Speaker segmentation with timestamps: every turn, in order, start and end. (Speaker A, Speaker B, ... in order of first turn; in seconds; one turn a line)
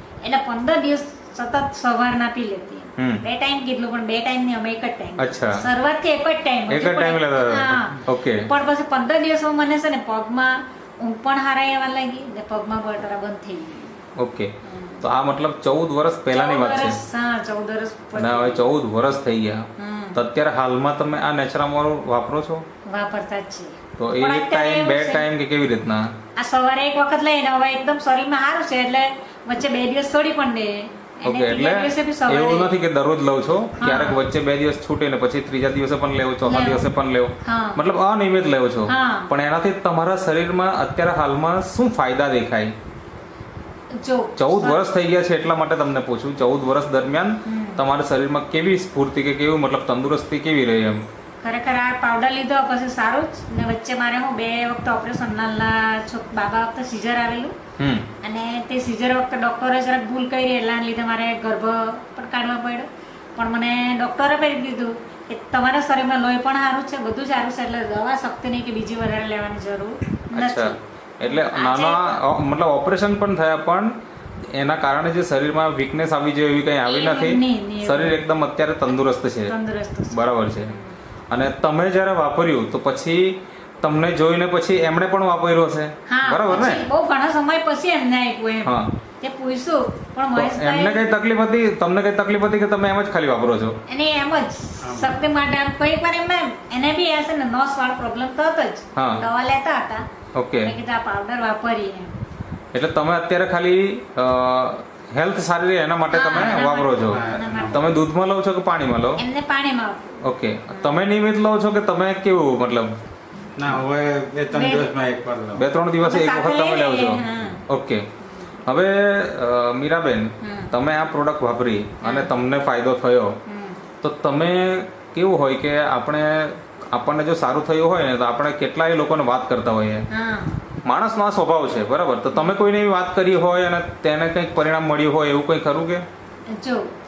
Speaker A: 0.2-14.0
Speaker B: 5.2-5.6
Speaker B: 6.7-8.5
Speaker B: 14.2-17.0
Speaker A: 14.6-15.0
Speaker A: 16.3-18.7
Speaker B: 18.1-22.6
Speaker A: 19.8-20.2
Speaker A: 22.9-25.3
Speaker B: 24.0-26.1
Speaker A: 26.4-32.7
Speaker B: 31.2-42.7
Speaker A: 33.8-34.2
Speaker A: 36.4-36.9
Speaker A: 37.4-37.8
Speaker A: 38.9-39.3
Speaker A: 44.0-44.9
Speaker B: 44.4-51.0
Speaker A: 47.4-47.8
Speaker A: 51.4-57.5
Speaker B: 57.8-58.1
Speaker A: 58.2-72.2
Speaker B: 70.3-73.9
Speaker B: 74.5-79.5
Speaker A: 76.8-78.2
Speaker A: 79.5-81.0
Speaker B: 80.1-80.8
Speaker B: 81.3-86.8
Speaker A: 86.1-91.1
Speaker B: 88.6-88.9
Speaker B: 90.3-93.8
Speaker A: 93.9-100.1
Speaker C: 94.8-95.2
Speaker B: 99.0-99.2
Speaker B: 100.3-100.7
Speaker A: 100.6-102.2
Speaker B: 102.7-109.2
Speaker A: 106.1-107.9
Speaker C: 107.0-107.9
Speaker A: 109.2-111.0
Speaker B: 110.2-113.0
Speaker C: 113.6-115.7
Speaker A: 114.5-114.9
Speaker B: 115.6-118.1
Speaker A: 116.0-117.6
Speaker A: 118.2-118.5
Speaker B: 118.6-123.4
Speaker A: 120.4-120.7
Speaker A: 122.0-122.3
Speaker A: 123.5-123.8
Speaker B: 124.0-130.1
Speaker A: 130.1-130.6
Speaker B: 130.8-136.1
Speaker A: 136.5-136.9